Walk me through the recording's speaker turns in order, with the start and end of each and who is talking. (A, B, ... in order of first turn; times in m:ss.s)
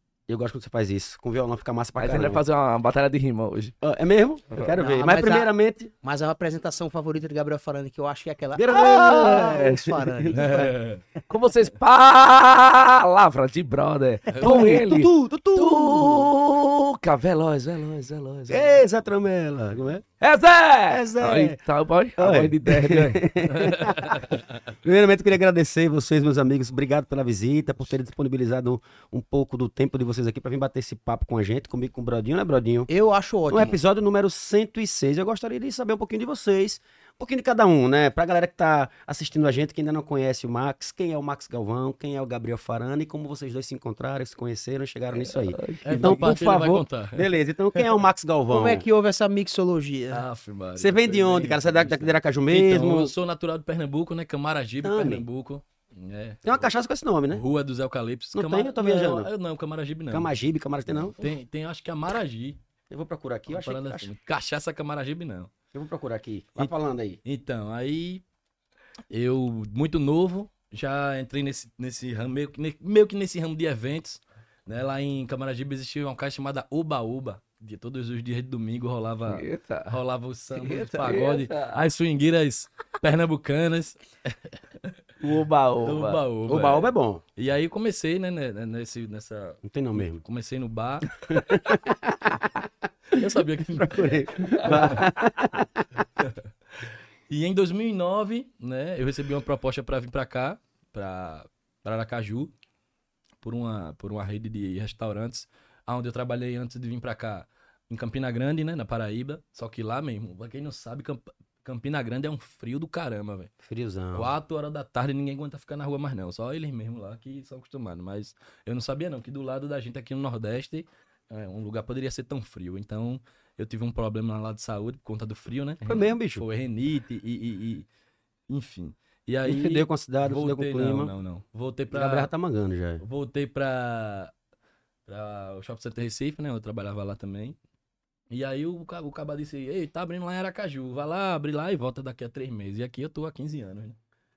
0:00.3-0:02.4 A
0:02.0-0:03.8 B
0:03.8-0:05.9 A
0:04.7-0:05.5 C
0:06.0-0:10.6 C
0:08.6-0:10.7 A
0:10.4-0:10.7 B
0:10.5-0:11.0 D
0:11.3-0:18.8 B
0:14.3-0:16.2 C
0:14.4-0:15.0 A
0:18.5-0:20.0 A
0:20.2-0:24.0 B
0:20.9-0:21.6 A
0:22.2-0:32.9 A
0:32.9-0:33.8 C
0:33.5-0:48.9 A
0:45.2-0:46.4 B
0:45.8-0:47.9 D
0:48.5-0:50.2 C
0:50.1-0:56.6 D
0:50.8-0:53.1 A
0:54.8-0:55.2 A
0:56.4-0:57.4 A
0:57.3-1:00.3 D
0:58.3-0:59.3 A
1:00.1-1:01.2 A
1:01.1-1:02.6 D
1:02.9-1:04.1 A
1:03.5-1:05.5 D
1:05.7-1:07.2 A
1:07.2-1:08.2 D
1:09.1-1:24.6 D
1:19.3-1:20.0 B
1:20.6-1:21.8 B
1:25.2-1:26.2 B
1:25.8-1:31.7 D
1:26.5-1:27.2 A
1:29.6-1:30.2 A
1:31.2-1:32.5 A
1:33.1-1:35.0 D
1:33.2-1:36.0 A
1:34.5-1:35.1 B
1:37.3-1:42.5 D
1:43.4-1:53.5 D
1:53.6-1:54.3 A
1:54.1-2:07.9 D
2:05.8-2:06.5 A
2:08.5-2:12.3 D
2:09.4-2:11.1 A
2:11.9-2:13.0 A
2:13.0-2:14.3 D
2:15.1-2:17.6 D
2:18.3-2:24.0 D